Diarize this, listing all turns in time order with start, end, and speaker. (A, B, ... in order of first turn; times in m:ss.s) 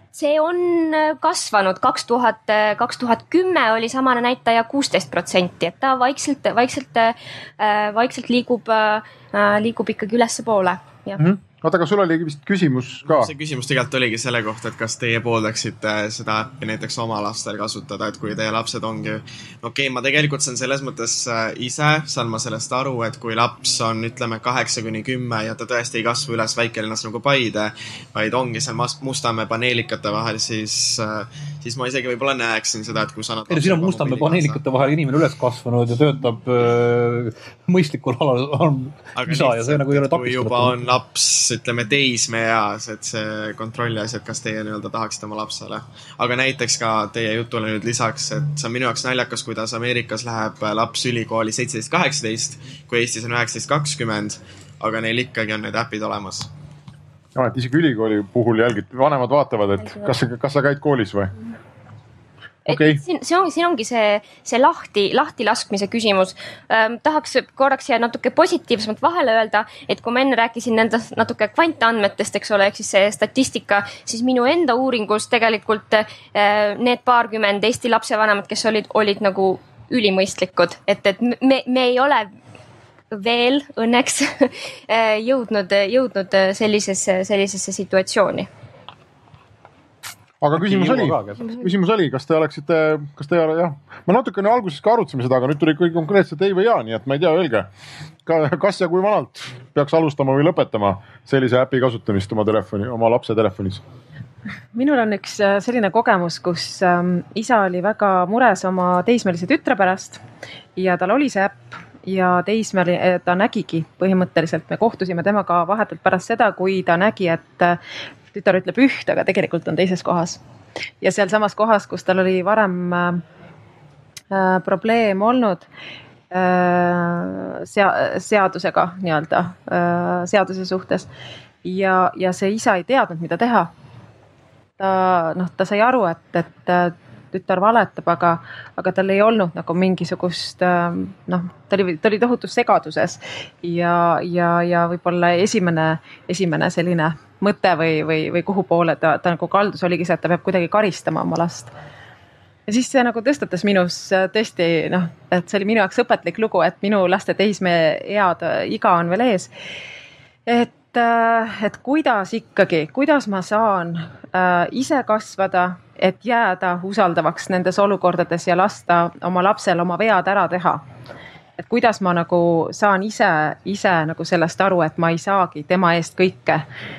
0:00.1-0:11.2 A
0:11.2-0:13.3 B
0:13.1-0:34.6 C
0:33.5-0:40.8 D
0:39.2-0:56.5 C
0:57.4-1:01.3 B
0:59.8-1:00.1 A
1:02.7-1:22.3 A
1:02.7-1:03.0 B
1:23.1-1:28.5 A
1:30.4-1:37.7 B
1:30.6-1:31.5 D
1:38.3-1:43.8 B
1:44.8-1:50.2 E
1:50.8-1:57.8 E
1:58.3-2:00.4 E
2:01.0-2:03.2 E
2:04.3-2:05.7 E
2:06.3-2:11.1 E
2:11.6-2:13.7 E
2:14.8-2:31.7 E
2:32.7-2:39.5 E
2:40.5-2:50.8 E
2:51.6-2:56.6 E